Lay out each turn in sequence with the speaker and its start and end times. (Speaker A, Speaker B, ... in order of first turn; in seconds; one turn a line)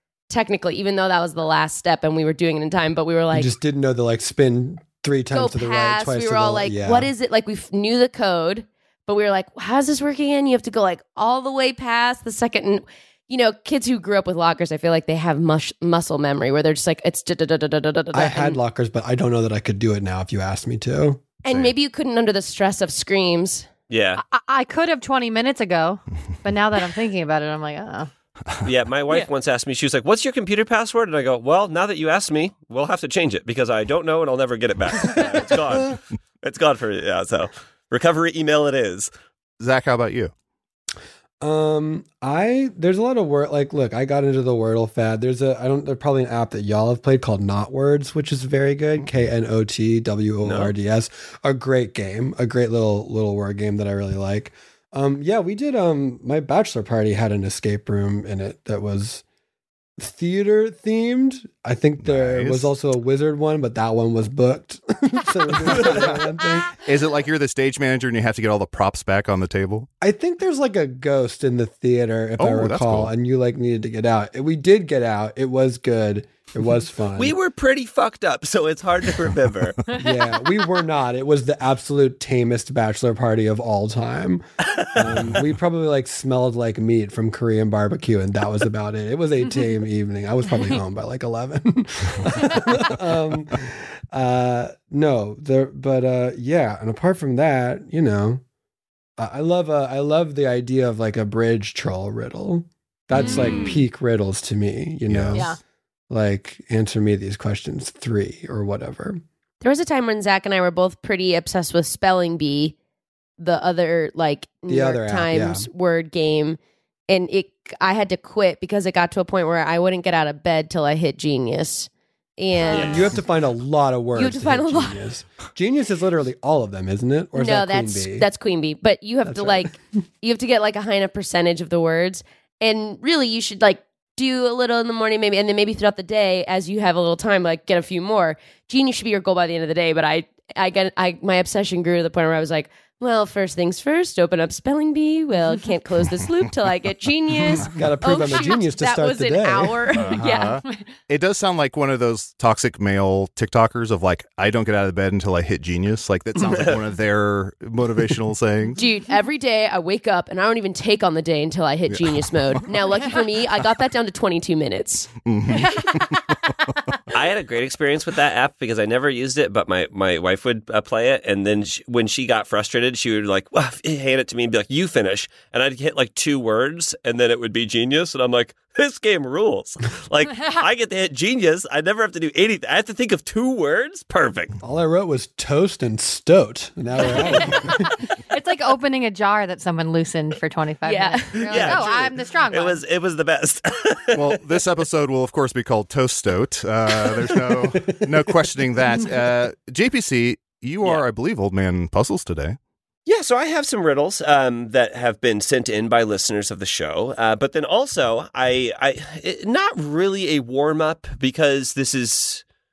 Speaker A: 0.3-3.5
Speaker B: 3.3-7.1
Speaker A: 5.3-18.6
Speaker B: 18.1-21.2
Speaker A: 21.4-23.7
Speaker C: 21.5-21.7
Speaker D: 23.9-24.2
Speaker E: 24.2-28.1
Speaker D: 28.6-39.1
Speaker C: 39.6-40.3
Speaker B: 41.4-59.2
Speaker D: 50.4-50.7
Speaker B: 60.0-66.7
Speaker C: 62.0-62.7
Speaker C: 65.8-66.2
Speaker C: 66.8-69.9
Speaker B: 70.0-77.3
Speaker C: 72.4-73.1
Speaker D: 77.2-79.8
Speaker B: 79.9-98.4
Speaker C: 85.0-85.4
Speaker B: 99.2-105.6
Speaker C: 105.1-105.4
Speaker B: 106.1-109.2
Speaker A: 109.6-112.8
Speaker A: 113.4-123.1
Speaker B: 114.7-115.7
Speaker B: 122.7-128.3
Speaker D: 122.7-123.1
Speaker A: 124.1-125.0
Speaker A: 127.3-150.6
Speaker B: 129.2-129.7
Speaker B: 147.5-149.8
Speaker C: 149.9-158.8
Speaker D: 156.4-156.8
Speaker A: 158.8-165.1
Speaker C: 161.9-162.3
Speaker C: 165.2-166.2
Speaker E: 165.6-166.0
Speaker D: 167.1-184.5
Speaker B: 184.6-187.9
Speaker E: 187.0-192.8
Speaker A: 190.8-191.8
Speaker D: 191.3-194.7
Speaker C: 194.1-202.6
Speaker B: 197.7-198.1
Speaker D: 203.1-212.4